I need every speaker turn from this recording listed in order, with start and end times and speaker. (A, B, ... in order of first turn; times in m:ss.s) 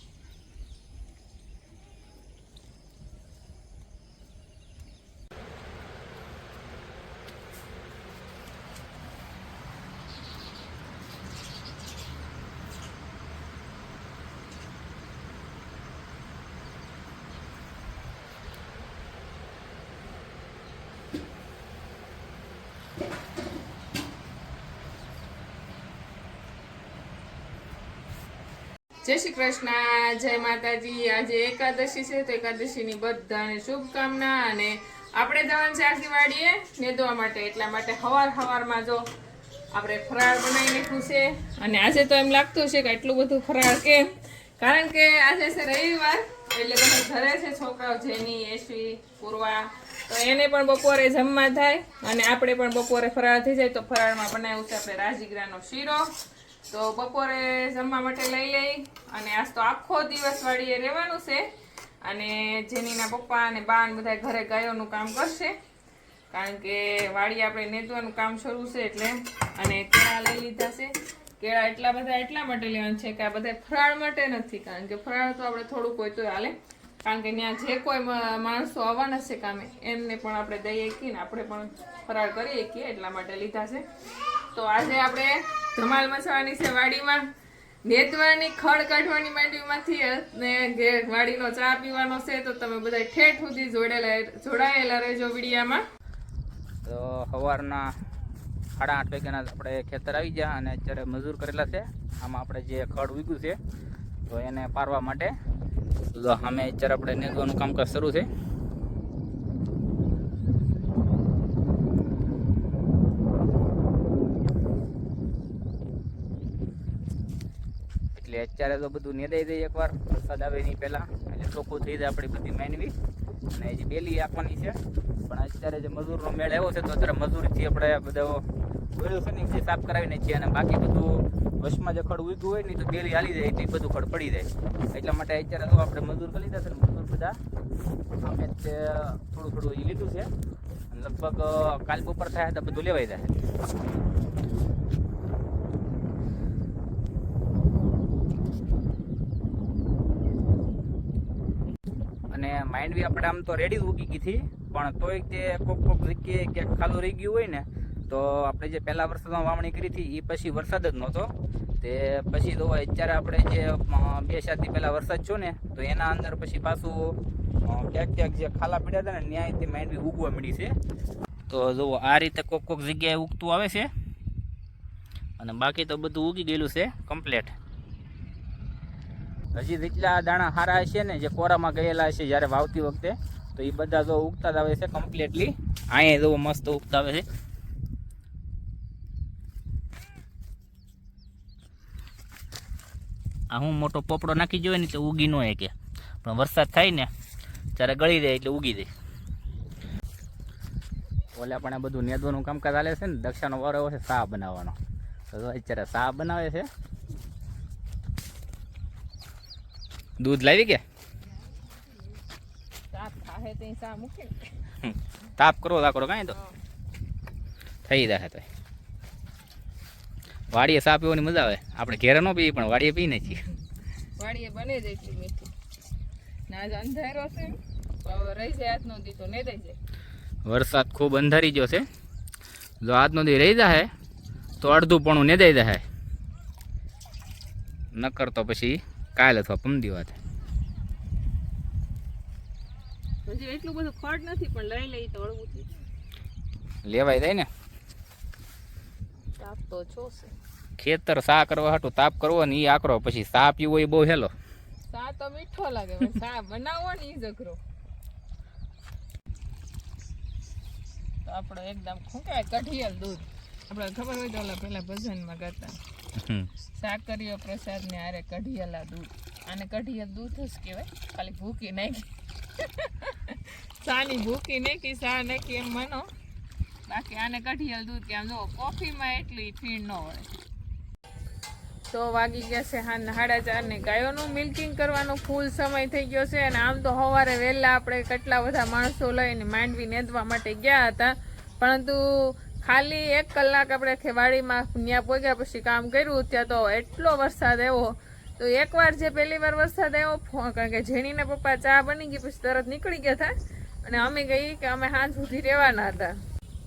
0:29.0-0:39.0 A
0:39.7-0:56.1 A
0:56.7-1:01.4 A
1:02.0-1:05.5 A
1:06.3-1:23.8 A
1:24.5-1:27.2 A
1:27.9-1:35.8 A
1:36.8-1:37.8 B
1:38.8-1:43.6 B
1:44.3-1:45.3 B
1:46.1-1:48.3 B
1:58.1-2:02.9 B
2:03.5-2:04.8 B
2:05.3-2:08.4 B
2:09.0-2:17.4 B
2:18.2-2:20.3 B
2:20.9-2:23.3 B
2:32.3-2:47.2 B
2:47.7-2:50.7 B
2:51.5-2:53.9 B
2:55.4-2:57.5 B
2:59.5-3:07.2 B
3:13.5-3:15.7 B
3:16.2-3:17.1 B
3:17.8-3:18.9 B
3:21.4-3:24.8 B
3:25.3-3:26.7 B
3:30.2-3:30.8 B
3:32.9-3:34.5 A
3:34.8-3:36.4 B
3:37.9-3:38.5 B
3:40.5-3:43.5 B
3:44.2-3:45.5 A
3:46.5-3:49.8 A
3:50.4-3:51.8 B
3:52.8-3:53.9 B
3:54.6-3:55.8 B
3:57.9-4:00.2 B
4:03.3-4:05.7 A
4:06.8-4:07.5 B
4:09.4-4:10.3 A
4:10.8-4:14.3 B
4:14.9-4:17.6 A
4:21.2-4:25.8 A
4:26.2-4:26.5 B
4:26.7-4:36.1 A
4:36.9-4:40.3 A
4:41.9-5:06.2 A